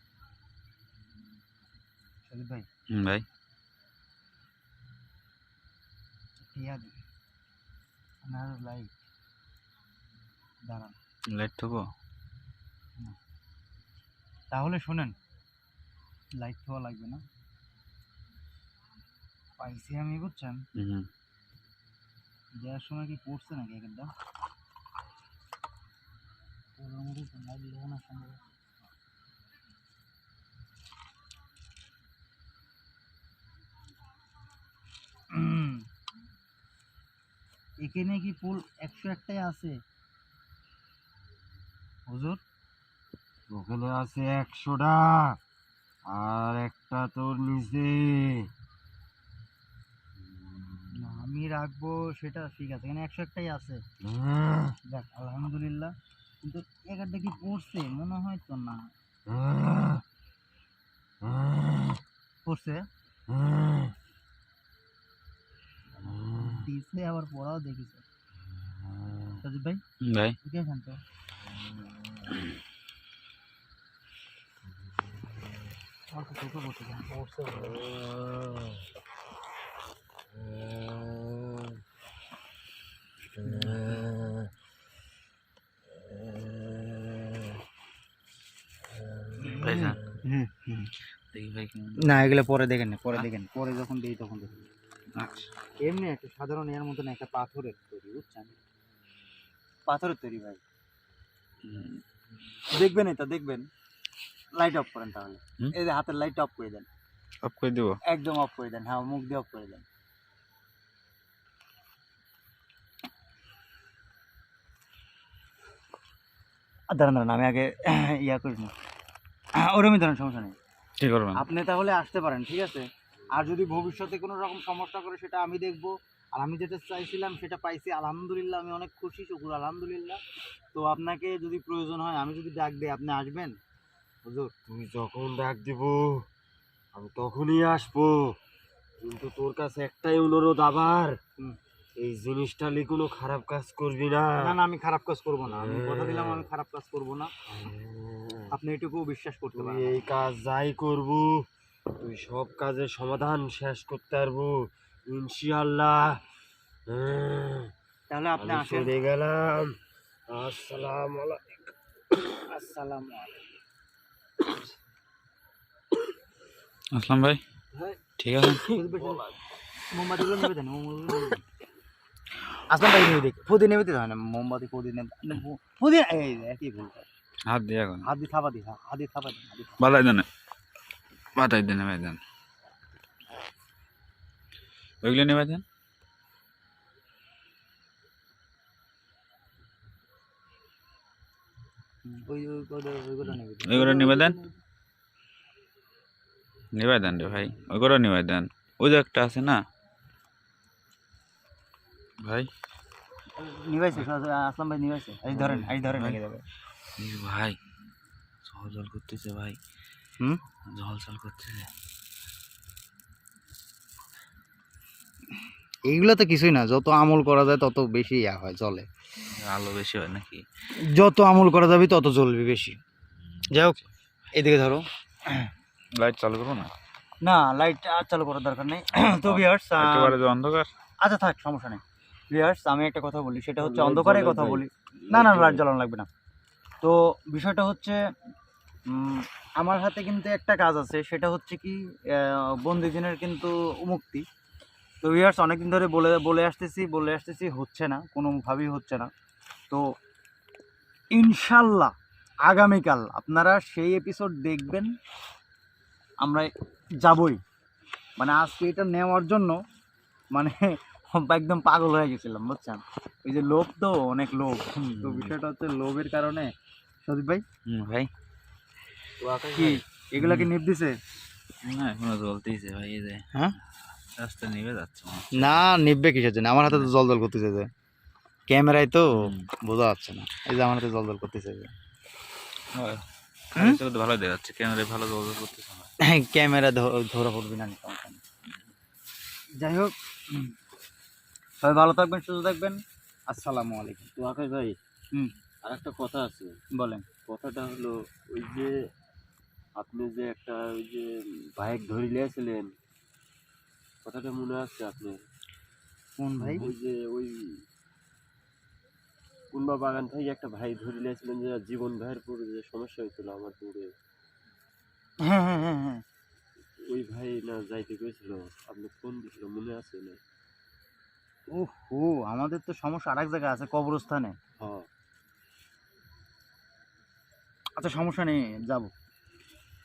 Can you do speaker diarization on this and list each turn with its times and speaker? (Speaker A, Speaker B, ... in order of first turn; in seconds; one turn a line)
Speaker A: 2.2-2.7
Speaker B: 2.9-3.2
Speaker A: 6.4-6.9
Speaker A: 8.2-8.9
Speaker A: 10.7-10.9
Speaker B: 11.3-11.8
Speaker A: 14.5-15.1
Speaker A: 16.4-17.2
Speaker A: 19.6-20.6
Speaker B: 20.8-21.1
Speaker A: 22.6-24.1
Speaker A: 26.8-28.4
Speaker A: 35.3-35.8
Speaker A: 37.8-39.7
Speaker A: 42.1-42.4
Speaker C: 43.5-45.4
Speaker C: 46.1-48.5
Speaker A: 51.0-53.8
Speaker C: 54.0-54.8
Speaker A: 54.9-58.8
Speaker C: 59.3-60.0
Speaker C: 61.2-62.0
Speaker A: 62.4-62.8
Speaker C: 63.3-63.9
Speaker C: 66.0-66.6
Speaker A: 66.4-68.0
Speaker A: 69.4-69.8
Speaker B: 70.0-70.4
Speaker A: 70.4-71.0
Speaker A: 76.1-77.8
Speaker C: 77.7-78.8
Speaker C: 80.4-81.7
Speaker A: 83.4-84.0
Speaker C: 83.4-84.4
Speaker A: 89.4-90.9
Speaker B: 89.4-90.0
Speaker B: 91.3-92.0
Speaker A: 92.0-94.6
Speaker B: 95.2-95.5
Speaker A: 95.8-98.5
Speaker A: 99.9-100.6
Speaker B: 101.6-102.0
Speaker A: 102.7-103.7
Speaker A: 104.5-106.9
Speaker B: 107.4-108.0
Speaker A: 108.0-109.8
Speaker A: 116.9-118.7
Speaker A: 119.6-120.5
Speaker B: 121.0-121.4
Speaker A: 121.4-130.2
Speaker A: 130.7-133.5
Speaker C: 134.7-136.2
Speaker C: 136.9-138.3
Speaker C: 139.0-141.2
Speaker C: 142.0-144.4
Speaker A: 144.4-147.3
Speaker C: 145.5-146.4
Speaker C: 147.5-148.5
Speaker A: 148.5-150.0
Speaker C: 149.5-156.2
Speaker C: 156.9-157.7
Speaker A: 158.1-158.9
Speaker C: 158.4-159.8
Speaker C: 160.3-161.7
Speaker A: 162.5-163.4
Speaker B: 166.9-167.4
Speaker C: 167.7-168.0
Speaker B: 168.2-168.6
Speaker C: 168.6-169.3
Speaker A: 168.7-169.2
Speaker A: 169.9-171.4
Speaker A: 172.7-177.1
Speaker B: 177.4-178.1
Speaker A: 178.0-179.7
Speaker B: 179.8-180.3
Speaker B: 181.3-182.2
Speaker B: 185.0-185.6
Speaker A: 192.1-194.6
Speaker B: 193.2-194.3
Speaker B: 196.7-199.6
Speaker B: 202.2-202.5
Speaker A: 203.3-206.4
Speaker B: 205.3-206.2
Speaker B: 207.0-207.6
Speaker B: 208.4-209.6
Speaker B: 210.7-211.7
Speaker A: 215.9-218.8
Speaker B: 219.3-220.4
Speaker A: 220.8-222.8
Speaker A: 223.5-223.8
Speaker A: 224.3-225.5
Speaker B: 226.0-226.7
Speaker A: 227.2-230.2
Speaker B: 229.0-230.7
Speaker A: 231.0-236.1
Speaker C: 233.6-235.6
Speaker A: 236.8-238.0
Speaker A: 238.9-244.2
Speaker A: 245.0-249.1
Speaker A: 251.1-251.9
Speaker A: 252.4-254.9
Speaker A: 256.2-256.5
Speaker A: 257.0-257.4
Speaker A: 258.2-259.6
Speaker A: 260.3-266.5
Speaker B: 265.0-265.3
Speaker A: 267.0-267.4
Speaker B: 267.7-268.1
Speaker C: 269.2-269.8
Speaker A: 269.5-270.9
Speaker B: 270.2-270.5
Speaker B: 271.6-273.2
Speaker B: 274.2-275.6
Speaker A: 275.3-277.7
Speaker A: 278.5-281.7
Speaker B: 279.2-279.5
Speaker B: 282.7-285.9
Speaker A: 286.0-288.2
Speaker A: 289.6-290.5
Speaker A: 291.6-292.8
Speaker A: 293.3-294.1
Speaker C: 294.2-294.8
Speaker C: 295.6-296.5
Speaker A: 296.7-297.0
Speaker C: 297.2-298.7
Speaker C: 299.8-302.7
Speaker C: 304.0-305.2
Speaker A: 306.2-306.7
Speaker C: 306.4-307.6
Speaker C: 309.5-313.9
Speaker A: 315.2-316.0
Speaker C: 316.8-320.2
Speaker A: 321.5-324.4
Speaker C: 324.6-324.9
Speaker A: 327.8-328.9